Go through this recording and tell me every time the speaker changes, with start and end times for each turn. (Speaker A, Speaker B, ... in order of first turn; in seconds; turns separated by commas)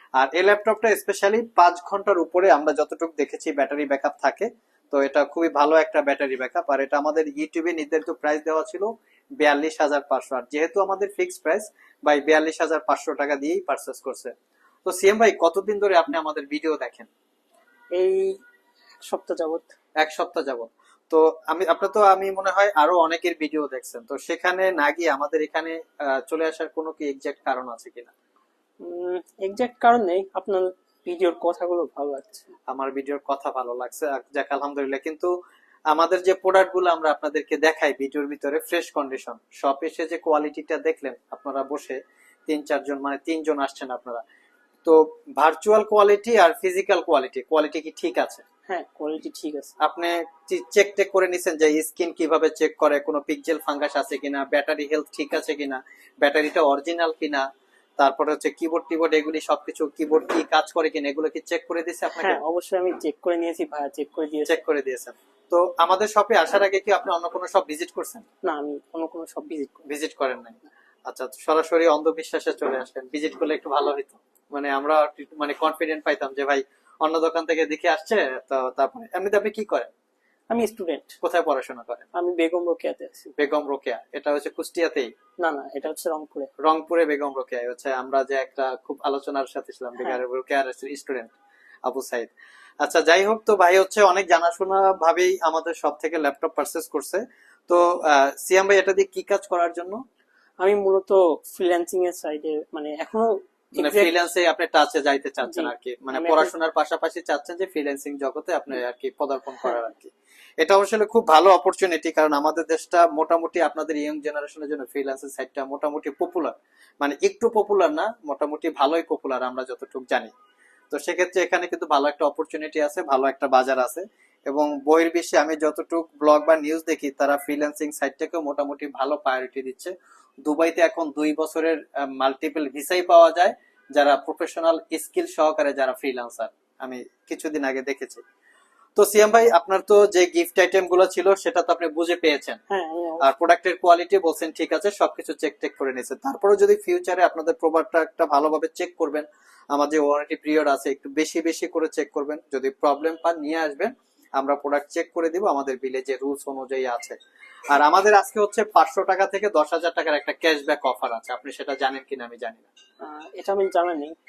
Speaker A: 0.2-14.3, Speaker A: 14.9-17.1, Speaker B: 17.9-18.4, Speaker B: 19.0-19.7, Speaker A: 20.0-28.1, Speaker B: 28.8-32.5, Speaker A: 32.7-35.3, Speaker A: 35.9-44.2, Speaker A: 44.9-48.4, Speaker B: 48.7-49.7, Speaker A: 49.8-57.5, Speaker A: 58.0-62.4, Speaker B: 62.2-64.6, Speaker A: 64.5-68.2, Speaker B: 68.4-69.9, Speaker A: 69.9-70.6, Speaker A: 71.1-79.9, Speaker B: 80.5-81.2, Speaker A: 81.2-82.1, Speaker B: 82.1-83.3, Speaker A: 83.4-85.1, Speaker B: 85.4-86.5, Speaker A: 86.6-91.3, Speaker A: 91.9-92.3, Speaker A: 92.8-100.0, Speaker B: 100.6-104.2, Speaker A: 103.8-120.3, Speaker B: 105.5-106.5, Speaker A: 120.9-129.9, Speaker A: 130.4-138.2, Speaker A: 139.0-142.6, Speaker B: 142.7-143.3, Speaker A: 143.2-157.2, Speaker A: 157.7-162.7, Speaker B: 163.0-164.2